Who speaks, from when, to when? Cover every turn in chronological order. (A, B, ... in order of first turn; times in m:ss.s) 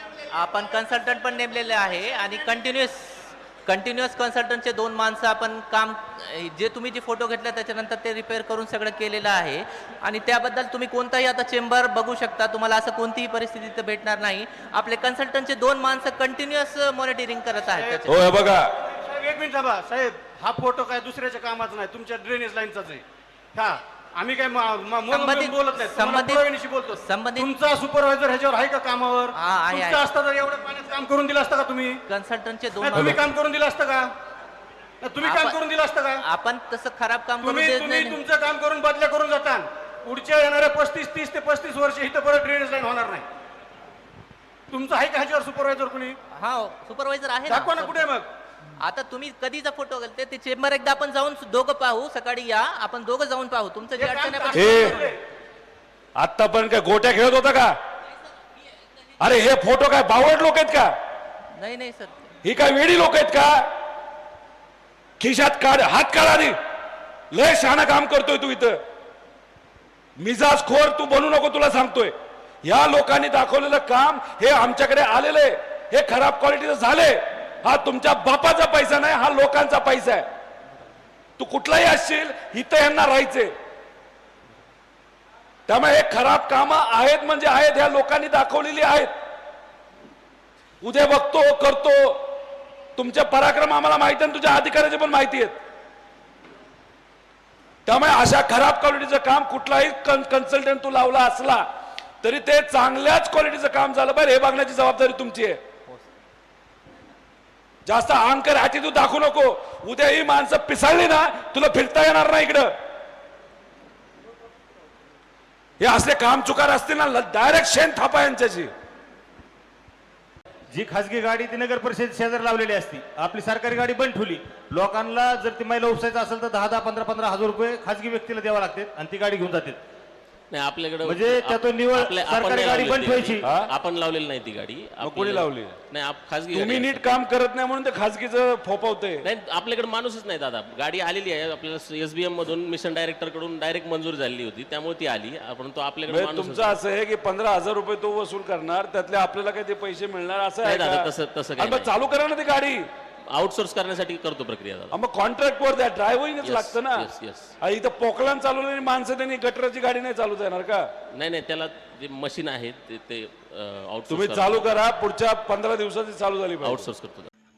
0:00.3-0:18.2 A
0:18.0-0:18.8 B
0:18.9-0:23.0 C
0:23.5-0:32.0 C
0:25.1-0:27.5 A
0:29.3-0:30.1 A
0:32.1-0:33.2 A
0:32.8-0:34.1 C
0:35.0-0:36.2 C
0:35.2-0:35.6 A
0:36.2-0:38.2 A
0:37.4-0:43.2 C
0:44.7-0:46.2 C
0:46.3-0:48.1 A
0:47.5-0:48.3 C
0:48.8-0:55.1 A
0:54.0-0:55.2 C
0:54.5-0:55.0 B
0:56.1-0:57.8 B
0:59.2-1:00.9 B
1:01.5-1:02.2 A
1:02.4-1:03.6 B
1:05.2-1:06.6 B
1:07.3-1:08.8 B
1:10.2-1:20.3 B
1:21.4-1:23.5 B
1:25.7-1:29.1 B
1:30.8-1:32.3 B
1:33.0-1:35.6 B
1:37.8-1:41.6 B
1:42.2-1:45.6 B
1:47.8-1:52.7 B
1:55.8-1:58.7 B
2:00.7-2:09.8 D
2:10.5-2:17.2 E
2:11.0-2:13.5 D
2:13.4-2:13.7 B
2:15.0-2:15.8 B
2:16.5-2:19.3 B
2:19.2-2:26.8 E
2:26.1-2:32.9 B
2:30.6-2:32.0 E
2:33.3-2:35.0 E
2:34.9-2:37.1 B
2:36.4-2:37.5 E
2:37.6-2:40.9 B
2:41.1-2:44.8 E
2:44.1-2:46.9 B
2:46.6-2:47.3 E